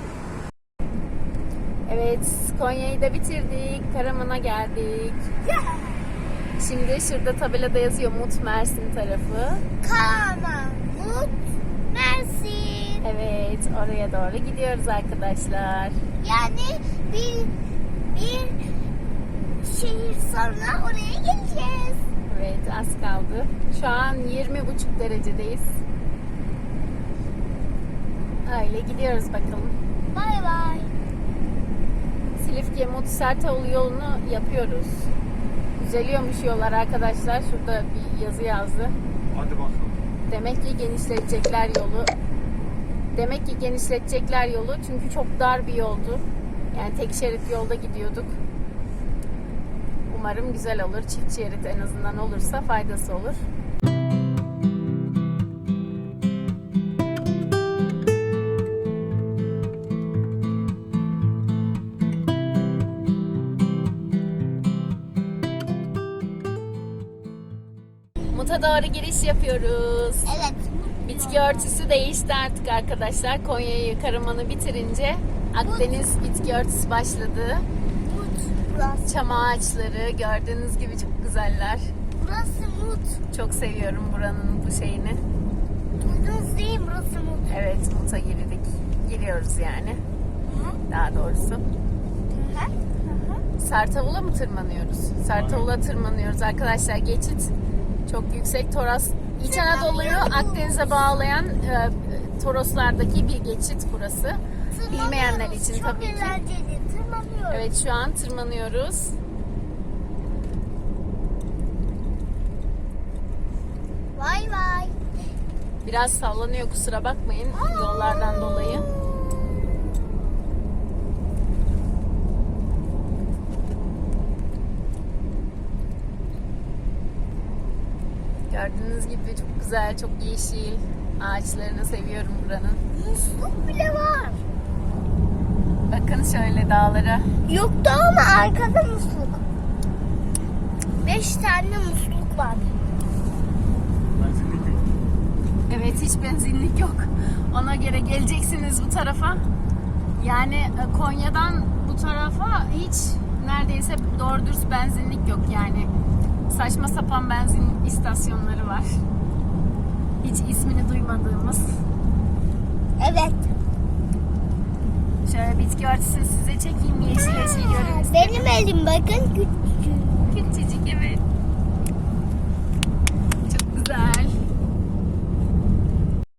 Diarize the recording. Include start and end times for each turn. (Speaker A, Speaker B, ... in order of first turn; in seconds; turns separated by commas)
Speaker A: 1.9-5.2, Speaker B: 5.5-6.0, Speaker A: 6.6-9.6, Speaker B: 9.8-11.4, Speaker B: 11.9-13.0, Speaker A: 13.0-16.0, Speaker B: 16.2-18.8, Speaker B: 19.6-22.0, Speaker A: 22.3-25.8, Speaker A: 28.4-29.8, Speaker B: 30.1-30.9, Speaker A: 32.4-35.1, Speaker A: 35.8-39.0, Speaker C: 39.2-40.0, Speaker A: 40.3-42.1, Speaker A: 43.1-48.4, Speaker A: 50.1-53.4, Speaker A: 68.3-70.3, Speaker B: 70.2-71.8, Speaker A: 71.0-77.6, Speaker B: 75.6-76.0, Speaker B: 78.1-79.1, Speaker A: 79.0-81.9, Speaker B: 82.2-83.2, Speaker A: 83.3-85.2, Speaker B: 86.0-87.5, Speaker A: 87.5-90.0, Speaker B: 90.5-90.8, Speaker A: 90.9-91.6, Speaker B: 92.3-93.4, Speaker A: 93.6-97.5, Speaker C: 95.3-95.7, Speaker A: 98.0-106.4, Speaker B: 99.5-101.1, Speaker B: 104.7-107.7, Speaker A: 107.5-109.2, Speaker B: 114.2-115.0, Speaker A: 115.8-118.9, Speaker B: 117.5-119.7, Speaker A: 128.5-132.8, Speaker B: 132.9-134.4, Speaker A: 135.9-137.3, Speaker B: 137.5-139.4, Speaker B: 141.0-142.8, Speaker C: 144.2-144.9, Speaker A: 145.7-149.4, Speaker A: 150.2-155.9, Speaker A: 156.5-159.0, Speaker A: 160.2-161.8, Speaker B: 163.0-163.5, Speaker A: 165.2-168.5, Speaker B: 167.2-170.3, Speaker A: 170.3-171.2, Speaker A: 173.4-174.4